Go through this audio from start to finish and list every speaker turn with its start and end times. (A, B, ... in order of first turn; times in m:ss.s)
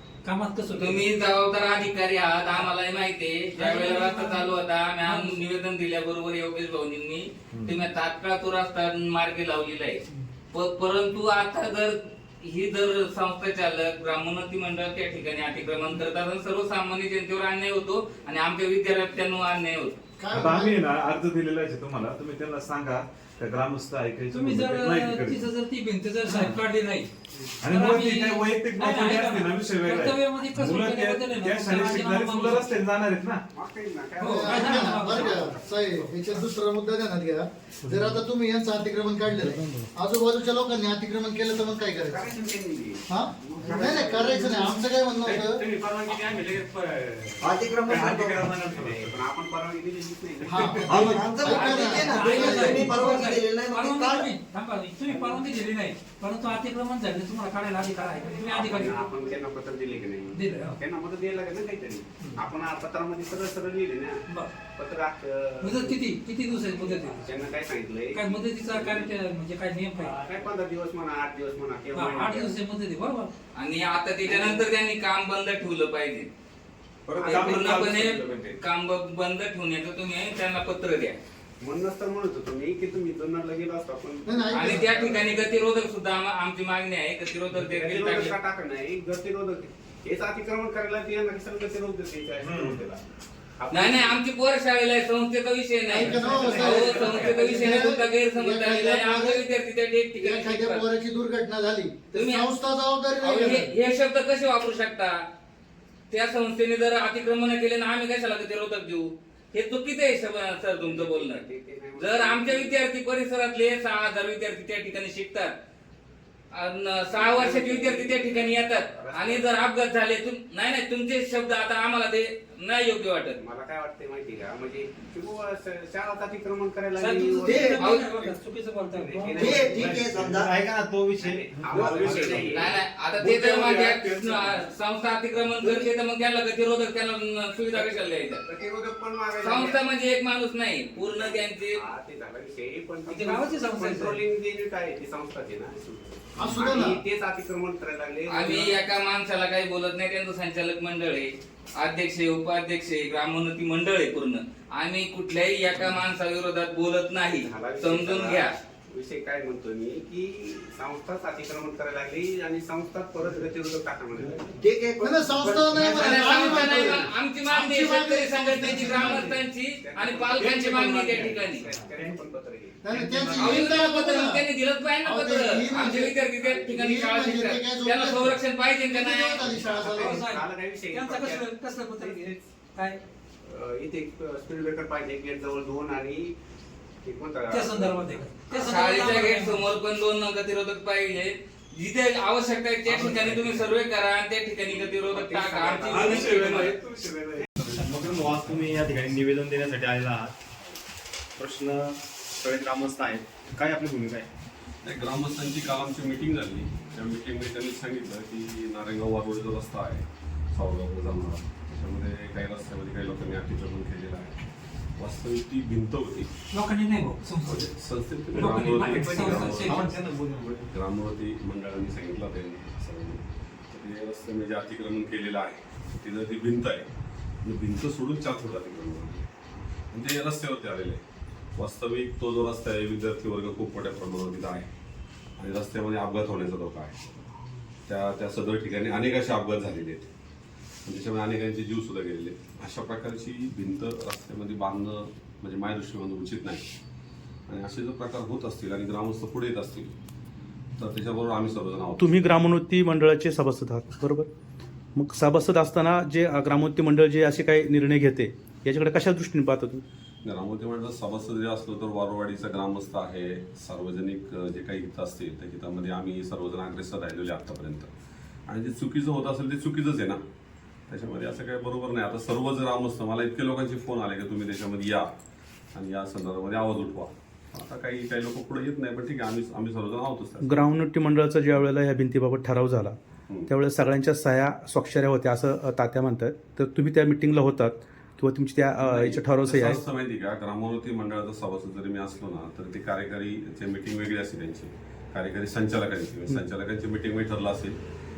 0:00.2-0:01.0 A
0:00.8-0:10.0 B
0:03.6-0:05.4 A
0:10.5-0:20.0 B
0:20.2-0:20.9 C
0:20.3-0:25.5 D
0:24.3-0:27.1 A
0:27.6-0:33.4 D
0:27.7-0:32.7 A
0:33.5-0:36.4 E
0:34.2-0:35.4 A
0:34.3-0:42.2 C
0:42.0-0:44.9 E
0:43.1-0:45.6 C
0:45.3-0:46.3 F
0:47.4-0:48.4 G
0:47.8-0:49.0 F
0:48.4-0:51.6 E
0:50.5-0:52.2 C
0:50.9-0:54.3 G
0:51.9-0:59.0 A
0:52.2-0:52.8 E
0:55.1-0:55.6 E
0:58.4-1:04.2 E
1:00.3-1:00.8 A
1:04.8-1:09.1 E
1:05.6-1:07.3 A
1:08.1-1:10.2 A
1:10.0-1:12.5 E
1:11.9-1:13.3 A
1:13.6-1:16.3 B
1:14.2-1:14.7 E
1:17.1-1:17.9 E
1:17.2-1:21.2 B
1:17.9-1:18.6 D
1:21.6-1:25.7 E
1:24.3-1:25.1 C
1:24.5-1:28.3 B
1:27.5-1:33.0 E
1:32.4-1:32.8 F
1:33.6-1:34.2 E
1:33.7-1:40.9 B
1:35.9-1:39.5 C
1:37.2-1:37.8 E
1:40.2-1:43.7 C
1:42.1-1:42.5 B
1:43.2-1:45.2 B
1:46.1-1:51.4 B
1:50.7-1:52.8 E
1:52.0-1:55.5 B
1:56.5-2:03.4 B
1:57.1-1:59.7 E
2:03.4-2:08.3 E
2:07.0-2:09.6 A
2:07.5-2:07.8 G
2:07.8-2:08.1 B
2:08.9-2:10.1 E
2:09.4-2:10.5 G
2:09.8-2:12.7 F
2:11.1-2:12.8 E
2:12.4-2:18.4 B
2:17.7-2:19.8 E
2:19.4-2:21.8 B
2:20.9-2:28.9 E
2:23.1-2:24.2 A
2:26.4-2:27.0 C
2:28.3-2:38.5 B
2:37.3-2:44.6 E
2:44.6-2:45.4 G
2:45.0-2:49.3 C
2:45.4-2:46.1 E
2:45.8-2:51.6 B
2:49.1-2:52.9 E
2:52.8-2:54.5 C
2:53.0-2:53.4 F
2:53.4-2:59.9 B
2:55.0-3:00.2 C
2:56.0-2:56.7 E
2:59.6-3:02.5 E
3:00.0-3:03.0 A
3:03.4-3:06.4 E
3:07.0-3:08.3 E
3:07.5-3:09.6 A
3:08.5-3:16.7 B
3:12.9-3:13.6 F
3:14.6-3:16.7 E
3:15.9-3:18.4 D
3:17.6-3:19.3 A
3:17.8-3:20.4 F
3:21.4-3:24.3 F
3:24.8-3:34.4 H
3:35.0-3:36.3 H
3:36.5-3:37.6 A
3:37.4-3:40.1 H
3:38.3-3:39.9 A
3:39.7-3:40.6 F
3:40.7-3:46.9 H
3:47.4-3:49.3 H
3:49.9-3:51.0 H
3:51.6-3:54.7 H
3:55.4-3:57.0 H
3:57.9-4:00.1 H
4:00.9-4:06.6 H
4:07.5-4:09.9 H
4:10.8-4:12.4 H
4:12.0-4:14.3 I
4:15.0-4:19.8 I
4:20.2-4:27.9 H
4:28.5-4:30.2 H
4:30.9-4:35.1 H
4:35.8-4:40.6 H
4:40.4-4:49.8 I
4:48.8-4:57.8 H